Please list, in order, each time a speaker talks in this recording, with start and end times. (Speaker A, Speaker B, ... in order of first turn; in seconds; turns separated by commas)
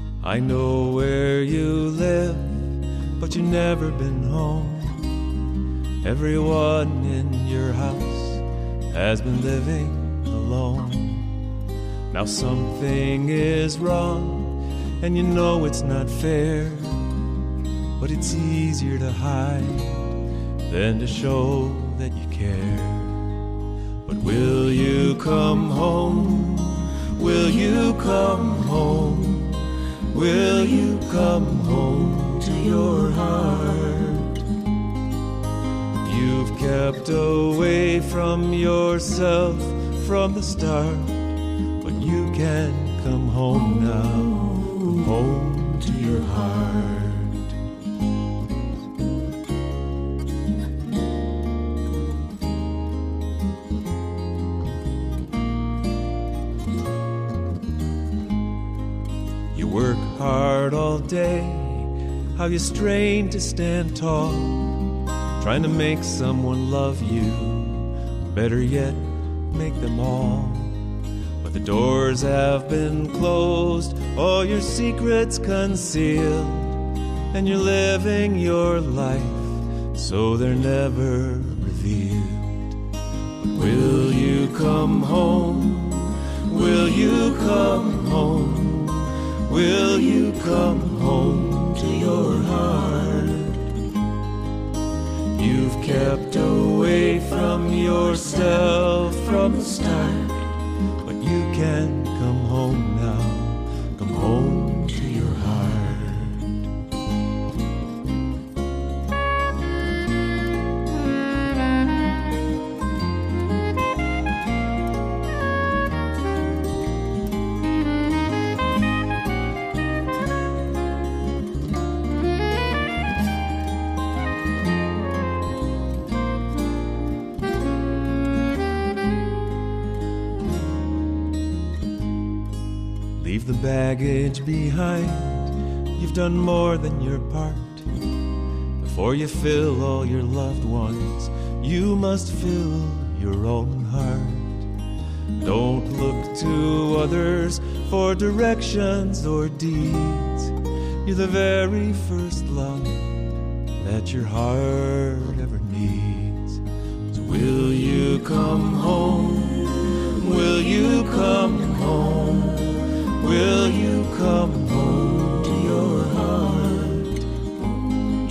Speaker A: 0.2-5.1, Speaker A: 6.0-11.3, Speaker A: 12.1-17.1, Speaker A: 18.0-20.1, Speaker A: 20.7-23.4, Speaker A: 24.1-34.4, Speaker A: 36.0-41.3, Speaker A: 41.8-47.5, Speaker A: 59.5-64.8, Speaker A: 65.4-70.8, Speaker A: 71.4-82.8, Speaker A: 83.4-93.7, Speaker A: 95.3-106.5, Speaker A: 133.2-137.9, Speaker A: 138.8-144.7, Speaker A: 145.4-167.2